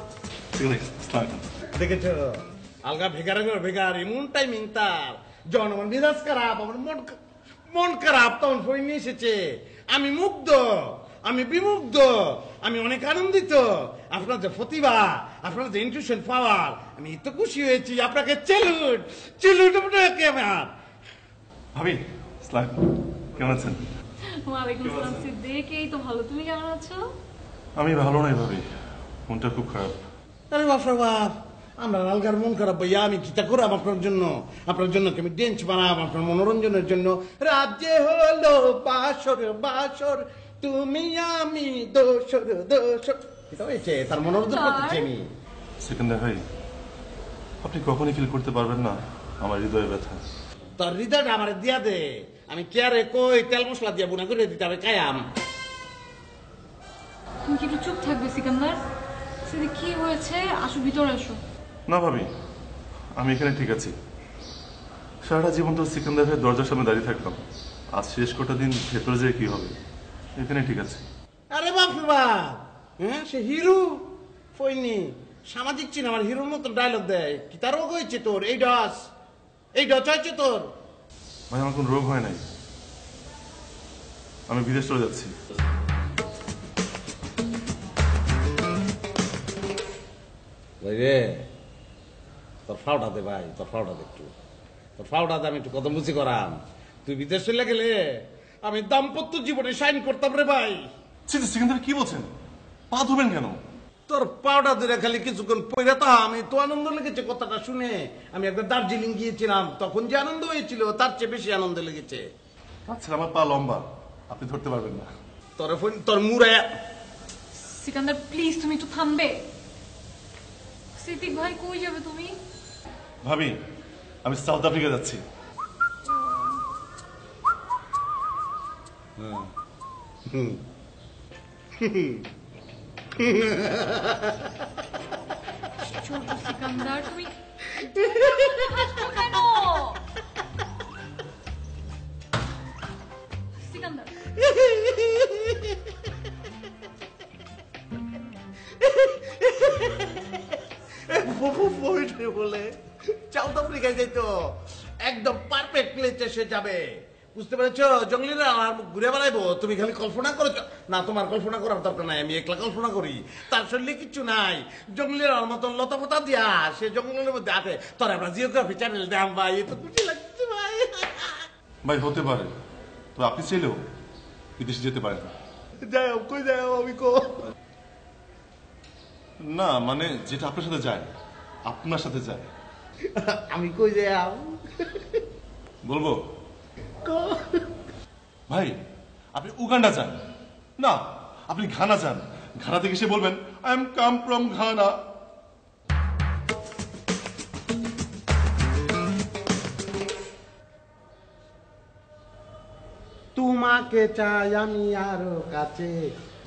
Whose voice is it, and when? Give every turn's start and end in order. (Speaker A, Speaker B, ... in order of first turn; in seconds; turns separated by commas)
Speaker A: 0.6-1.4, Speaker B: 1.7-7.1, Speaker B: 7.7-9.4, Speaker B: 9.9-20.7, Speaker A: 21.7-23.9, Speaker C: 24.2-27.0, Speaker A: 24.8-25.3, Speaker A: 27.8-28.7, Speaker A: 29.3-30.0, Speaker B: 30.5-45.2, Speaker C: 44.3-45.1, Speaker A: 45.8-46.4, Speaker A: 47.6-50.2, Speaker B: 50.8-55.2, Speaker C: 57.5-58.8, Speaker C: 59.4-61.4, Speaker A: 61.9-62.3, Speaker A: 63.2-63.9, Speaker A: 65.2-67.4, Speaker A: 67.9-69.7, Speaker A: 70.3-71.0, Speaker B: 71.5-79.1, Speaker B: 79.8-80.7, Speaker A: 81.5-82.4, Speaker A: 84.5-85.3, Speaker B: 90.8-91.4, Speaker B: 92.7-94.3, Speaker B: 95.0-98.0, Speaker B: 98.6-100.8, Speaker A: 101.3-102.3, Speaker A: 102.9-103.6, Speaker B: 104.1-112.2, Speaker A: 112.8-115.1, Speaker B: 115.6-116.7, Speaker C: 117.5-119.4, Speaker C: 121.0-122.4, Speaker A: 123.2-123.5, Speaker A: 124.2-125.2, Speaker C: 126.1-126.5, Speaker B: 129.2-129.5, Speaker B: 130.3-130.6, Speaker B: 131.8-132.2, Speaker B: 133.1-134.5, Speaker C: 135.8-137.3, Speaker B: 137.8-139.1, Speaker C: 137.8-140.0, Speaker C: 143.6-144.1, Speaker B: 144.3-145.8, Speaker B: 148.8-150.5, Speaker B: 151.1-152.7, Speaker B: 153.3-154.5, Speaker B: 155.0-171.5, Speaker A: 171.8-172.5, Speaker A: 173.2-173.8, Speaker A: 174.6-175.3, Speaker B: 175.8-177.4, Speaker A: 179.4-181.1, Speaker A: 181.7-182.5, Speaker B: 183.1-185.2, Speaker A: 185.8-186.2, Speaker B: 187.0-187.6, Speaker A: 188.5-188.7, Speaker A: 189.3-190.2, Speaker A: 190.8-194.9, Speaker B: 203.3-206.0